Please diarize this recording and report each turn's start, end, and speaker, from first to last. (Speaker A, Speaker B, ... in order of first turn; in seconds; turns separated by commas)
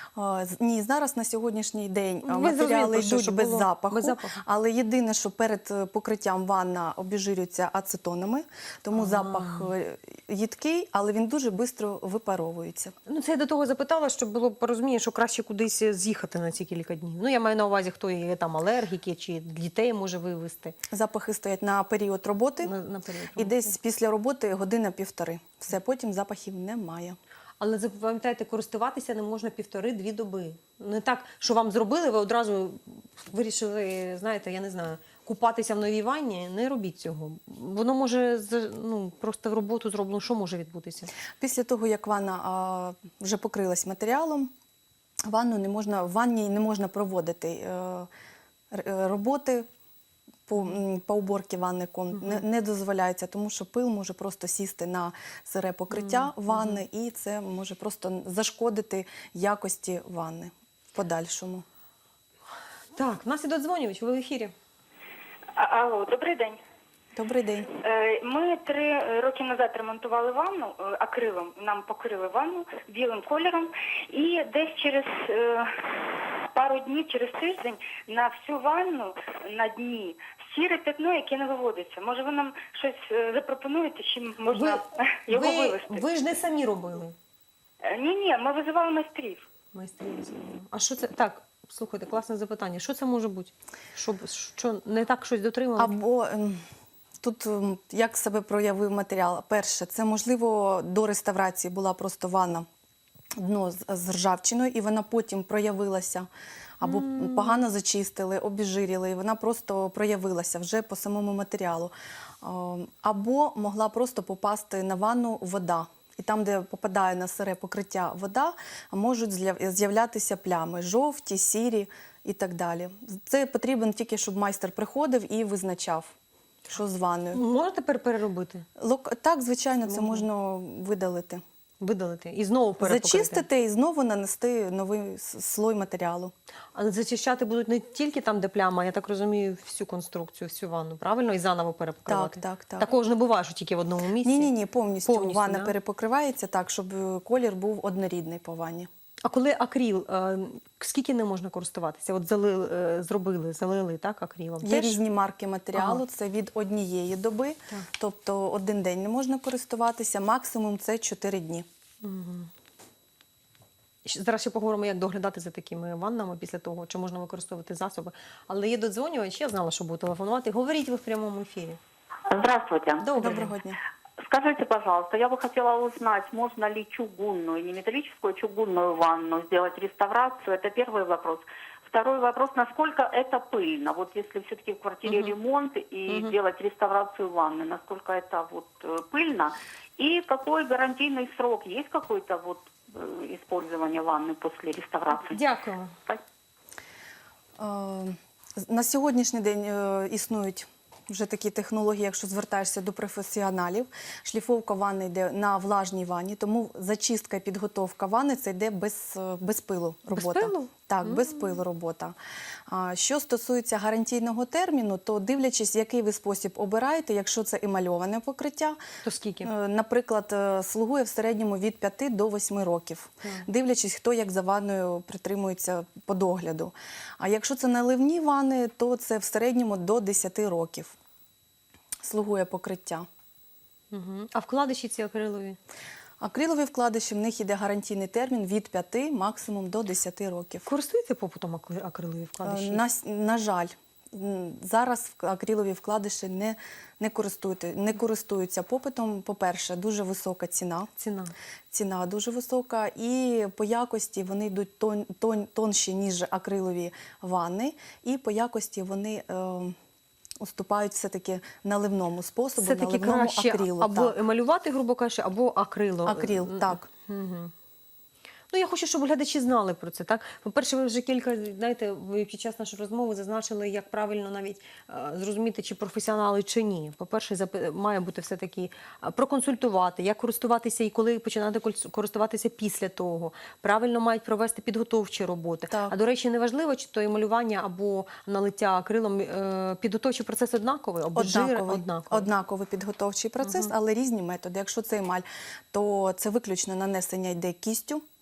Speaker A: 0.1-12.9, Speaker B: 2.2-4.4, Speaker B: 8.9-9.7, Speaker B: 13.1-20.7, Speaker A: 20.9-22.7, Speaker B: 22.6-23.7, Speaker A: 23.4-27.2, Speaker B: 27.6-41.1, Speaker A: 41.4-44.5, Speaker A: 45.3-48.1, Speaker A: 48.7-49.7, Speaker A: 50.5-61.6, Speaker B: 52.1-52.4, Speaker B: 55.9-56.8, Speaker B: 62.9-64.5, Speaker C: 65.5-66.6, Speaker A: 67.1-67.7, Speaker C: 67.8-86.0, Speaker B: 84.5-87.1, Speaker C: 87.9-89.4, Speaker B: 89.7-95.9, Speaker A: 95.8-96.6, Speaker A: 97.2-102.7, Speaker A: 103.4-106.3, Speaker A: 106.8-126.1, Speaker B: 106.8-107.6, Speaker A: 126.7-127.4, Speaker B: 127.3-128.6, Speaker A: 128.8-131.4, Speaker B: 129.9-130.3, Speaker B: 131.8-133.4, Speaker A: 132.8-136.3, Speaker B: 136.7-144.5, Speaker A: 142.1-142.9, Speaker A: 144.2-148.9, Speaker B: 145.0-145.7, Speaker B: 149.2-155.0, Speaker A: 154.6-161.7, Speaker B: 155.7-156.0, Speaker B: 162.0-162.5, Speaker B: 164.0-171.8, Speaker D: 172.3-173.1, Speaker B: 173.0-173.5, Speaker A: 173.2-173.8, Speaker D: 174.2-195.4, Speaker B: 185.1-185.3, Speaker B: 186.1-186.3, Speaker B: 195.2-195.9, Speaker A: 197.6-212.2, Speaker B: 210.1-211.6, Speaker A: 212.7-218.8, Speaker B: 219.0-219.5, Speaker A: 219.4-230.9, Speaker A: 232.0-233.1, Speaker B: 233.9-235.6, Speaker A: 236.2-240.7, Speaker B: 240.6-242.8, Speaker A: 242.4-250.9, Speaker B: 251.0-251.3, Speaker A: 251.7-259.7, Speaker A: 260.4-264.1, Speaker B: 262.6-267.5, Speaker A: 266.0-266.9, Speaker B: 268.5-292.3, Speaker A: 285.7-285.9, Speaker A: 291.1-298.0, Speaker B: 293.4-293.7